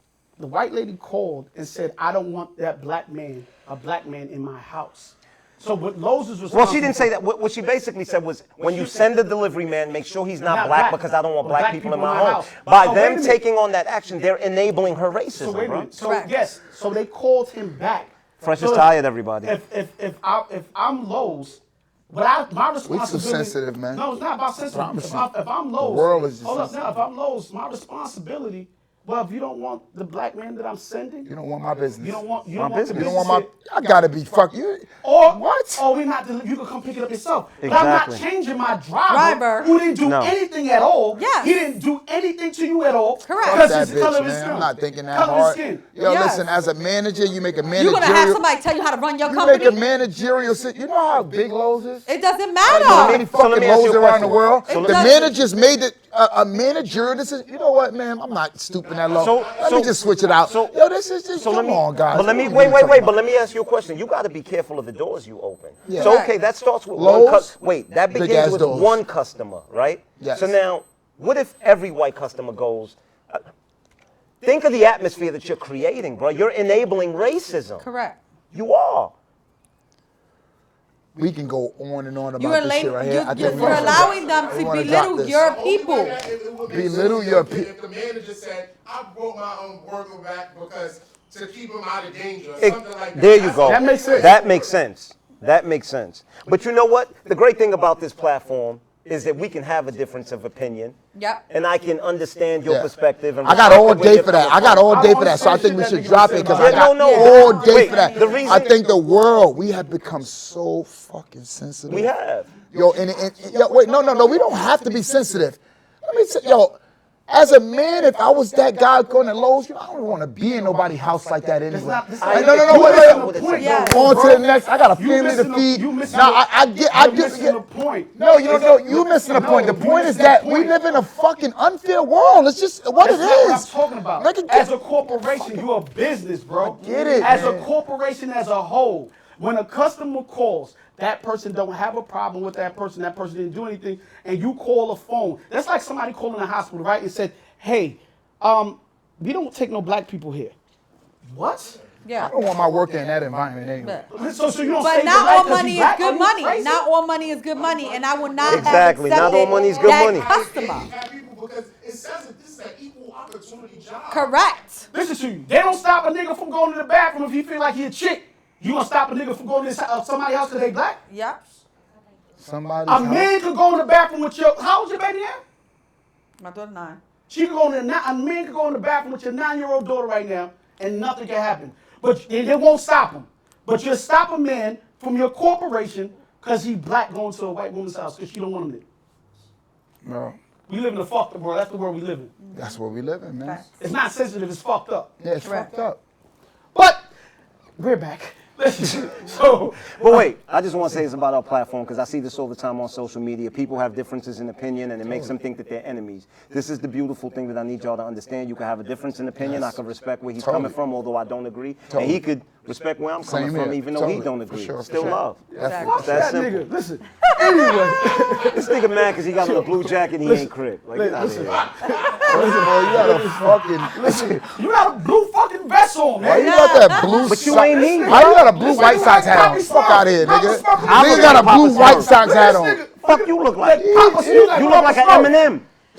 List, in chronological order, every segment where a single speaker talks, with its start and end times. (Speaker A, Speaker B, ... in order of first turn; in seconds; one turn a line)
Speaker A: 0.4-7.1
Speaker B: 6.5-15.9
Speaker A: 8.6-9.0
Speaker A: 10.4-13.4
Speaker A: 15.4-31.3
Speaker C: 16.0-16.3
Speaker B: 18.4-19.6
Speaker D: 22.9-24.1
Speaker D: 24.7-26.9
Speaker D: 31.3-32.3
Speaker A: 32.0-33.5
Speaker B: 32.6-33.2
Speaker D: 32.9-35.8
Speaker A: 35.0-45.9
Speaker B: 37.6-38.2
Speaker C: 39.1-39.8
Speaker B: 40.0-40.4
Speaker C: 41.2-41.5
Speaker C: 43.2-43.8
Speaker D: 43.4-48.4
Speaker C: 46.0-46.5
Speaker C: 47.7-49.8
Speaker D: 49.2-52.1
Speaker C: 52.1-53.2
Speaker D: 52.6-63.2
Speaker B: 52.7-55.3
Speaker C: 54.7-55.4
Speaker E: 58.8-60.3
Speaker B: 59.1-60.8
Speaker B: 61.4-73.4
Speaker D: 65.9-66.2
Speaker C: 66.0-66.3
Speaker D: 67.0-67.6
Speaker D: 68.1-69.0
Speaker D: 70.2-70.5
Speaker B: 74.4-77.8
Speaker C: 77.8-78.2
Speaker B: 78.5-79.2
Speaker D: 81.2-85.5
Speaker C: 82.4-86.2
Speaker E: 83.4-94.7
Speaker D: 86.7-87.7
Speaker B: 92.6-101.0
Speaker A: 93.6-94.3
Speaker C: 101.2-101.4
Speaker B: 101.5-104.9
Speaker D: 102.7-112.1
Speaker A: 104.8-106.9
Speaker B: 106.5-108.7
Speaker C: 107.0-108.7
Speaker B: 111.9-112.5
Speaker D: 112.7-127.6
Speaker A: 121.7-130.7
Speaker B: 122.2-124.1
Speaker C: 123.5-124.1
Speaker D: 128.1-134.7
Speaker A: 133.0-150.6
Speaker D: 136.6-137.7
Speaker C: 136.8-137.5
Speaker A: 151.2-151.8
Speaker C: 152.0-152.3
Speaker D: 152.2-154.0
Speaker C: 153.8-154.1
Speaker A: 154.1-156.9
Speaker C: 154.8-160.9
Speaker E: 157.5-164.3
Speaker B: 158.4-160.3
Speaker C: 164.1-164.9
Speaker A: 164.9-171.0
Speaker C: 171.1-171.4
Speaker D: 172.4-173.3
Speaker A: 172.9-175.4
Speaker C: 176.4-177.0
Speaker A: 177.3-188.8
Speaker D: 190.0-190.4
Speaker A: 190.7-192.3
Speaker C: 192.4-192.8
Speaker D: 192.5-193.7
Speaker A: 193.8-195.1
Speaker D: 195.2-196.0
Speaker C: 195.4-195.7
Speaker A: 196.7-197.1
Speaker A: 197.8-200.2
Speaker B: 199.8-216.7
Speaker D: 205.0-205.3
Speaker D: 209.4-209.8
Speaker D: 210.4-210.8
Speaker D: 211.9-212.2
Speaker D: 213.2-216.2
Speaker A: 214.9-235.4
Speaker C: 215.6-216.1
Speaker C: 217.2-217.8
Speaker B: 218.5-221.7
Speaker C: 221.8-222.2
Speaker D: 222.2-224.4
Speaker D: 226.2-232.8
Speaker C: 226.3-227.3
Speaker B: 227.2-228.2
Speaker E: 227.7-228.1
Speaker E: 228.8-229.3
Speaker B: 230.8-232.2
Speaker B: 233.0-235.7
Speaker D: 233.8-235.1